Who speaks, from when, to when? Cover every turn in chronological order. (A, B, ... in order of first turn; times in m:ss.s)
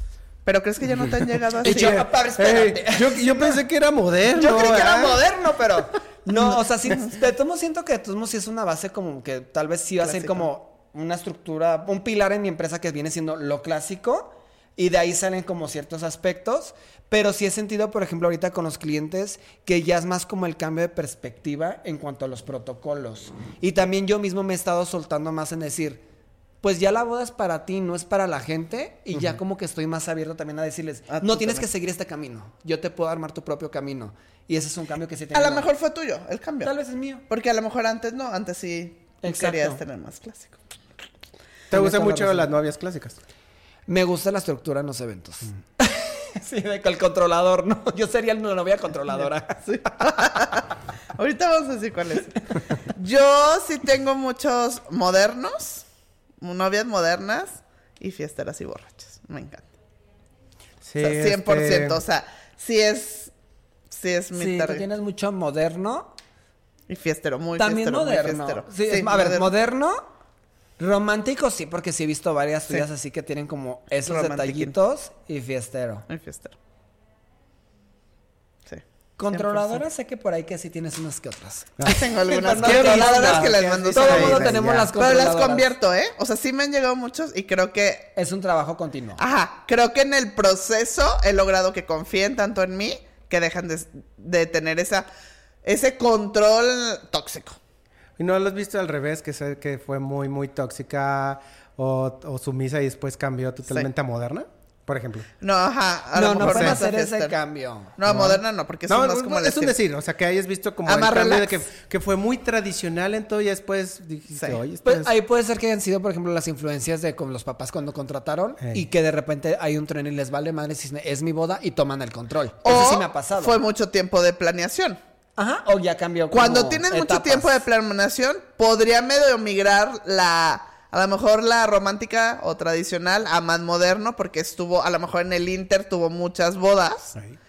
0:00.4-0:02.0 A
0:01.6-0:03.6 B
0:01.6-0:05.2 C
0:04.3-0:26.0 B
0:10.0-0:10.5 A
0:26.6-0:35.7 B
0:31.1-0:31.6 A
0:35.3-0:36.7 A
0:36.6-0:37.2 B
0:37.3-0:40.6 A
0:39.2-0:39.8 B
0:41.7-0:42.5 B
0:41.7-0:43.2 C
0:43.9-0:49.8 B
0:49.7-0:52.3 A
0:52.9-0:55.8 A
0:56.4-0:59.7 A
1:00.8-1:02.0 C
1:01.0-1:03.3 A
1:03.9-1:04.9 A
1:04.3-1:06.1 B
1:06.9-1:09.5 A
1:07.6-1:10.0 B
1:10.8-1:16.0 B
1:14.0-1:14.7 A
1:16.1-1:16.6 A
1:18.7-1:19.8 A
1:19.2-1:25.7 B
1:21.8-1:24.9 C
1:21.8-1:28.1 A
1:28.1-1:29.2 B
1:29.2-1:35.1 A
1:35.6-1:37.6 A
1:38.2-1:45.3 C
1:45.4-1:47.3 A
1:46.1-1:48.0 B
1:46.4-1:46.8 C
1:48.0-1:49.8 A
1:48.0-1:55.1 C
1:50.8-1:51.5 A
1:54.8-2:03.6 B
2:02.6-2:05.0 A
2:05.4-2:07.6 B
2:06.3-2:17.1 A